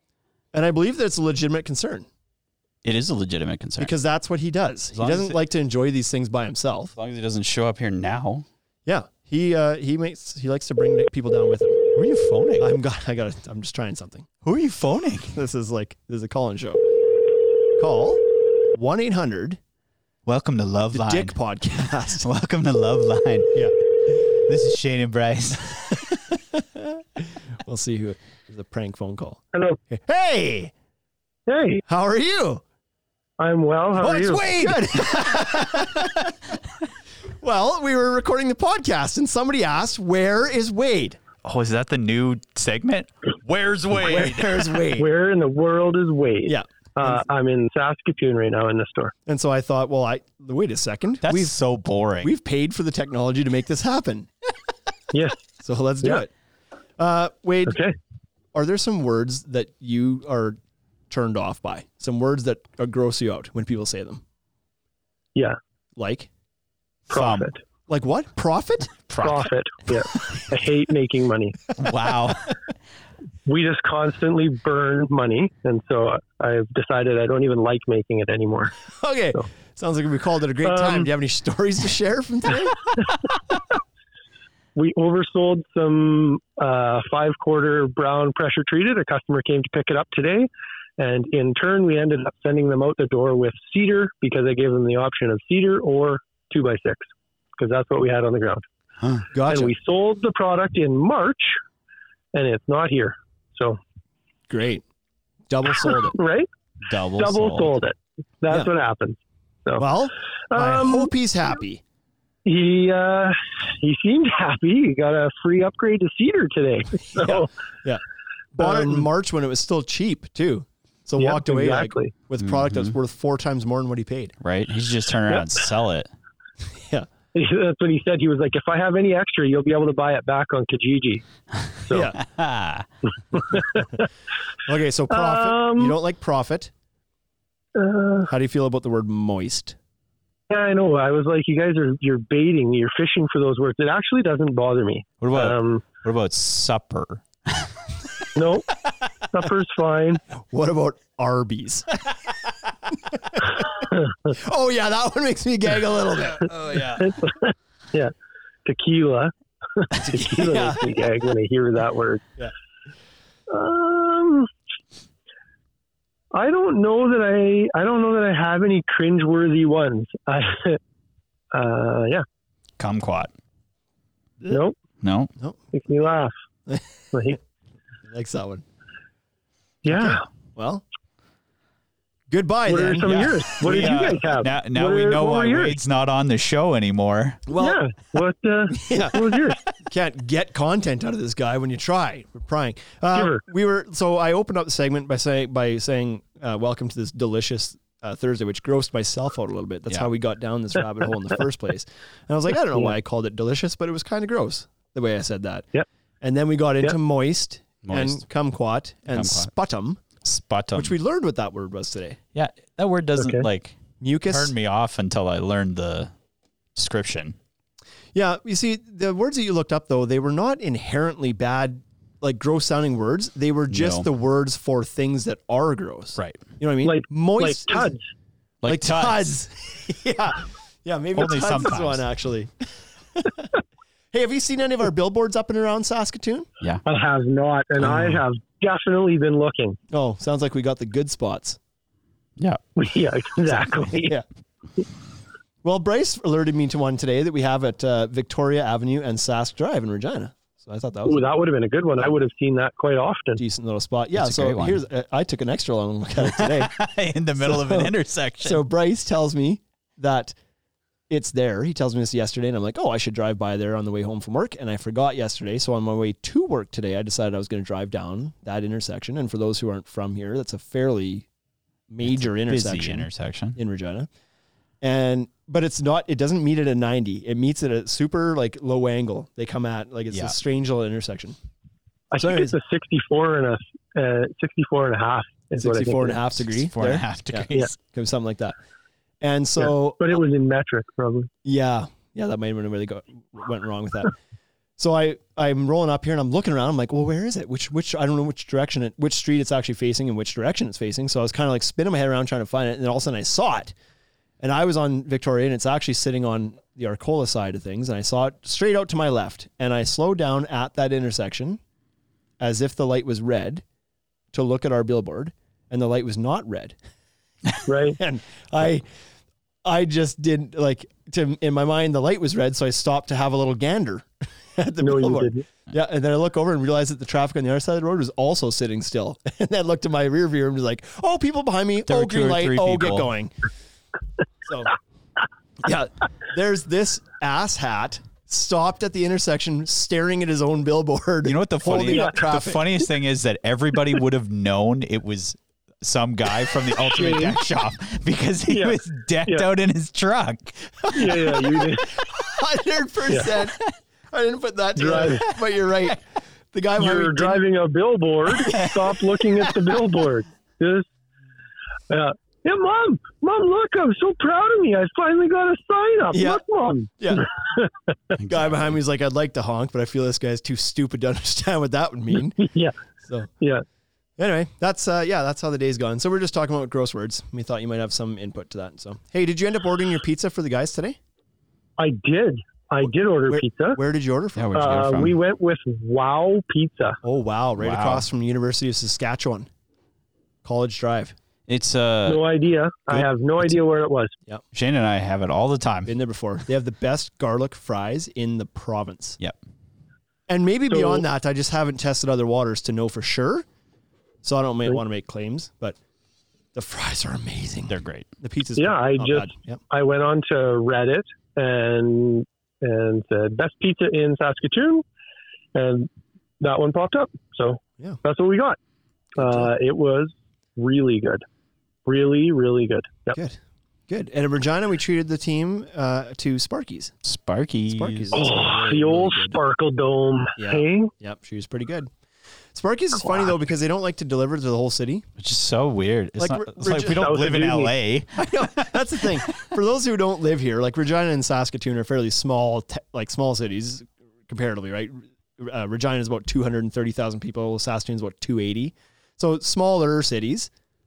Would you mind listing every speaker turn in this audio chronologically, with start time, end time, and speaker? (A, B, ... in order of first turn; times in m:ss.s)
0:00.5-0:02.1 A
0:02.8-0:03.9 B
0:03.8-0:06.9 A
0:04.9-0:05.4 B
0:07.0-0:08.4 B
0:08.8-0:11.9 A
0:11.9-0:12.7 B
0:12.6-0:14.3 A
0:14.4-0:15.4 B
0:15.2-0:17.0 A
0:17.8-0:19.6 A
0:20.2-0:23.7 B
0:20.9-0:22.2 A
0:24.2-0:26.0 B
0:26.0-0:30.7 A
0:31.5-0:31.8 C
0:31.8-0:32.6 A
0:33.4-0:34.8 C
0:34.0-0:36.3 A
0:37.4-0:41.2 A
0:41.4-0:44.8 B
0:44.0-0:45.1 A
0:44.9-0:49.1 C
0:46.4-0:47.2 A
0:49.3-0:51.6 A
0:51.2-0:52.3 B
0:52.2-0:54.3 A
0:55.1-0:55.4 C
0:55.6-0:56.3 A
0:57.0-0:57.8 A
0:57.7-0:57.9 C
0:58.5-1:00.6 A
1:01.1-1:04.2 A
1:06.0-1:06.3 A
1:07.1-1:07.5 B
1:07.1-1:07.6 C
1:07.9-1:09.1 A
1:09.1-1:09.4 B
1:09.2-1:11.6 C
1:11.8-1:12.6 B
1:13.4-1:18.7 C
1:18.9-1:22.8 A
1:20.6-1:21.1 C
1:24.8-1:37.0 C
1:37.6-1:38.6 C
1:39.0-1:39.2 B
1:39.3-1:39.7 A
1:39.5-1:41.6 C
1:42.3-1:43.8 C
1:44.5-1:44.8 A
1:45.5-1:46.2 A
1:46.1-1:46.5 C
1:46.8-1:47.7 B
1:47.2-1:49.8 C
1:49.8-1:51.8 A
1:50.5-1:51.1 C
1:52.4-1:57.5 C
1:57.1-1:58.0 A
1:58.5-2:04.3 A
1:58.6-1:59.0 C
2:01.2-2:02.1 C
2:02.4-2:02.9 B
2:04.4-2:06.1 B
2:05.3-2:05.6 C
2:06.8-2:07.1 A
2:07.3-2:11.2 C
2:11.8-2:12.1 C
2:11.9-2:12.2 A
2:12.1-2:12.9 B
2:13.3-2:14.1 C
2:14.6-2:16.7 A
2:15.1-2:16.0 C
2:17.7-2:18.3 C
2:18.3-2:19.8 A
2:20.5-2:25.8 C
2:25.2-2:27.7 B
2:28.3-2:28.7 C
2:29.3-2:30.2 C
2:30.5-2:31.9 A
2:32.9-2:33.7 A
2:34.3-2:37.1 A
2:36.5-2:37.1 B
2:37.0-2:38.1 C
2:38.6-2:42.3 C
2:39.9-2:40.9 A
2:43.5-2:44.5 C
2:46.3-2:50.8 C
2:51.5-2:52.2 C
2:52.8-2:53.3 B
2:55.0-2:55.3 B
2:55.7-2:56.3 C
2:56.7-2:57.3 A
2:57.1-2:57.4 C
2:58.0-2:58.6 A
2:59.8-3:00.2 C
2:59.9-3:00.8 A
3:02.3-3:03.6 A
3:02.7-3:05.8 C
3:03.2-3:07.4 B
3:07.5-3:07.8 A
3:07.6-3:09.6 C
3:08.7-3:25.7 A
3:13.1-3:13.4 C
3:26.2-3:30.0 A
3:27.8-3:28.2 B
3:29.1-3:29.5 B
3:30.2-3:30.9 B
3:30.7-3:32.2 A
3:32.3-3:36.1 B
3:33.2-3:33.4 C
3:34.0-3:34.5 A
3:36.7-3:37.4 B
3:38.1-3:47.9 A
3:43.7-3:44.1 B
3:46.2-3:46.4 B
3:46.8-3:48.0 C
3:48.6-3:49.3 B
3:48.6-3:53.5 A
3:51.1-3:52.0 B
3:54.1-3:56.5 A
3:56.8-3:59.8 C
3:57.8-3:58.2 B
3:59.9-4:01.6 A
4:02.8-4:04.1 C
4:05.6-4:11.2 A
4:11.0-4:13.4 C
4:13.4-4:16.8 A
4:14.1-4:14.8 B
4:16.2-4:18.6 B
4:17.4-4:20.3 A
4:21.1-4:31.2 A
4:31.9-4:34.1 A
4:32.0-4:33.6 B
4:34.8-4:41.4 A
4:42.1-4:46.3 C
4:42.2-4:42.6 A
4:45.6-4:48.5 A
4:46.4-4:47.8 B
4:49.2-4:50.2 A
4:49.6-4:51.3 C
4:51.4-4:54.1 A
4:54.8-5:03.7 A
5:04.4-5:11.6 A
5:12.4-5:13.6 A
5:14.3-5:16.8 A
5:17.6-5:18.0 C
5:18.0-5:18.8 A
5:19.6-5:33.3 A
5:24.8-5:25.4 C
5:31.9-5:33.1 B
5:34.4-5:34.7 A
5:35.6-5:42.6 A
5:41.2-5:51.1 B
5:41.8-5:42.1 C
5:46.8-5:47.4 C
5:48.5-5:49.5 C
5:50.8-5:57.4 A
5:50.9-5:51.9 C
5:54.8-5:55.2 C
5:56.8-6:00.8 C
5:58.4-5:58.9 B
6:01.9-6:07.7 C
6:06.1-6:06.4 A
6:07.0-6:07.2 A
6:08.2-6:08.8 B
6:08.3-6:12.4 A
6:12.3-6:12.7 C
6:14.2-6:21.0 A
6:21.8-6:23.8 C
6:23.3-6:24.6 A
6:24.3-6:25.2 B
6:24.5-6:27.0 C
6:27.0-6:29.5 A
6:27.6-6:28.1 B
6:30.4-6:31.1 A
6:31.5-6:32.2 B
6:32.1-6:34.1 C
6:32.9-6:33.6 B
6:34.5-6:35.9 B
6:35.9-6:39.2 A
6:40.3-6:43.4 A
6:40.7-6:41.0 C
6:44.2-6:45.8 A
6:46.5-6:49.6 A
6:47.7-6:48.1 B
6:48.6-6:54.8 C
6:55.5-6:55.9 C
6:56.4-6:58.6 C
6:59.2-6:59.5 A
6:59.2-7:01.2 C
7:01.8-7:03.2 C
7:03.1-7:06.9 A
7:07.0-7:08.2 B
7:07.7-7:09.4 A
7:08.1-7:10.9 C
7:10.4-7:11.9 A
7:12.5-7:15.0 A
7:13.0-7:13.3 C
7:15.2-7:19.2 B
7:16.2-7:17.1 A
7:16.8-7:17.7 C
7:18.2-7:30.5 A